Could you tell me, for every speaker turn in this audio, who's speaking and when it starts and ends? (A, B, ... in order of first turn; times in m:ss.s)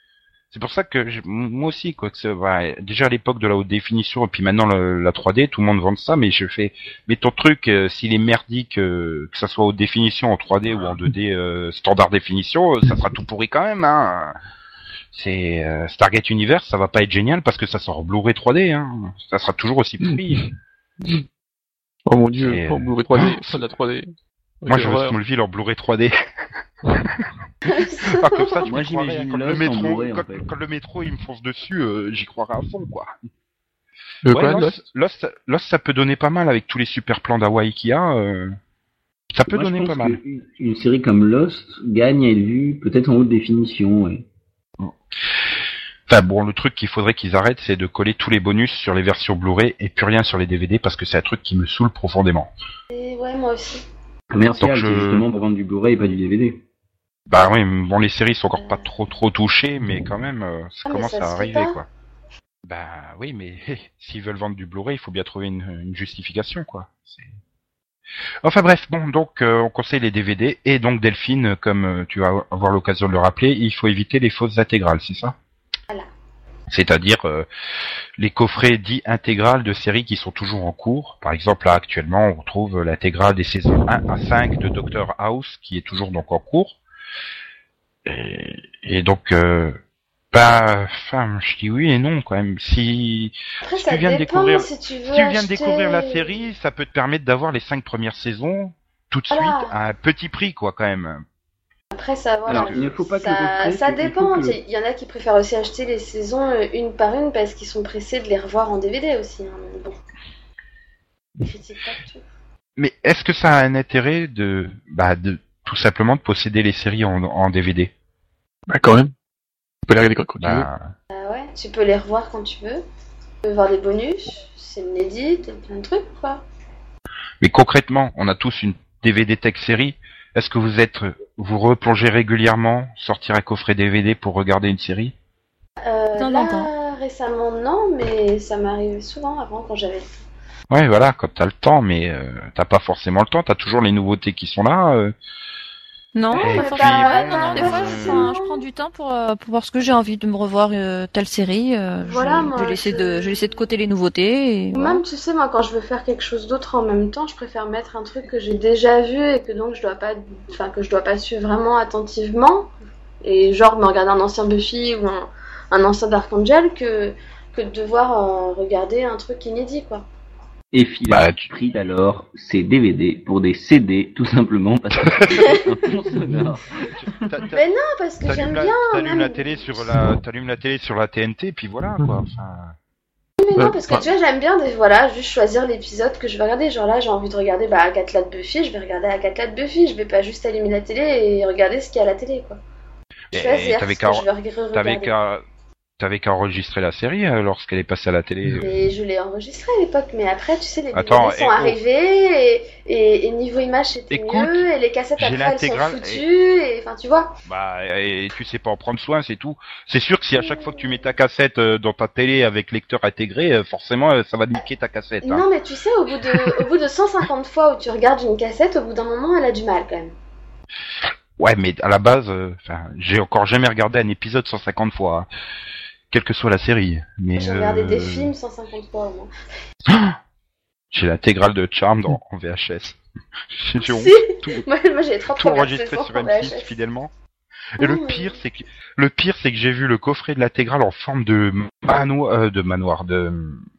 0:00.5-0:14.4 A
0:15.1-0:20.4 A
0:20.1-0:21.2 B
0:22.1-0:25.2 B
0:22.4-0:23.7 A
0:24.7-0:26.2 A
0:27.6-0:28.7 C
0:27.7-0:33.1 A
0:28.7-0:30.5 D
0:34.2-0:34.8 B
0:34.3-0:38.6 A
0:39.3-0:40.2 A
0:39.5-0:44.3 D
0:46.1-0:52.5 A
0:52.9-0:53.8 C
0:54.3-0:56.6 D
0:54.5-0:55.3 A
0:57.3-1:01.9 A
0:58.6-0:58.9 C
1:00.9-1:01.8 C
1:02.6-1:07.3 A
1:08.4-1:15.4 A
1:16.7-1:17.5 A
1:18.2-1:26.8 A
1:28.0-1:29.8 A
1:30.3-1:41.2 A
1:33.6-1:36.3 C
1:39.3-1:39.7 C
1:41.9-1:50.0 C
1:42.5-1:44.6 D
1:42.5-1:42.8 B
1:51.4-1:52.2 C
1:52.8-1:57.9 A
1:58.7-1:59.1 B
1:59.9-2:00.7 B
2:00.4-2:00.9 A
2:01.1-2:02.8 C
2:03.4-2:06.4 C
2:07.4-2:15.2 A
2:15.8-2:20.1 C
2:16.2-2:16.7 E
2:20.7-2:25.2 A
2:26.2-2:35.0 E
2:26.3-2:28.6 C
2:26.4-2:28.3 A
2:32.0-2:33.4 C
2:34.7-2:42.7 C
2:43.2-2:50.1 C
2:50.7-2:57.5 D
2:51.1-2:51.5 A
2:57.0-2:57.6 A
2:57.5-2:59.7 C
2:58.2-3:02.8 A
3:03.4-3:12.6 C
3:03.6-3:04.1 B
3:13.3-3:15.4 A
3:13.3-3:15.2 C
3:16.0-3:18.7 A
3:18.6-3:27.3 C
3:20.9-3:21.8 A
3:24.1-3:24.7 A
3:25.2-3:26.2 A
3:27.5-3:35.5 A
3:30.4-3:30.8 C
3:35.2-3:40.2 C
3:41.4-3:45.3 A
3:46.1-3:48.3 A
3:47.4-3:49.3 C
3:49.9-3:50.2 A
3:50.9-3:53.0 A
3:53.5-3:54.6 A
3:53.8-3:56.7 C
3:55.3-3:57.1 A
3:57.8-4:03.7 A
3:57.8-3:58.4 C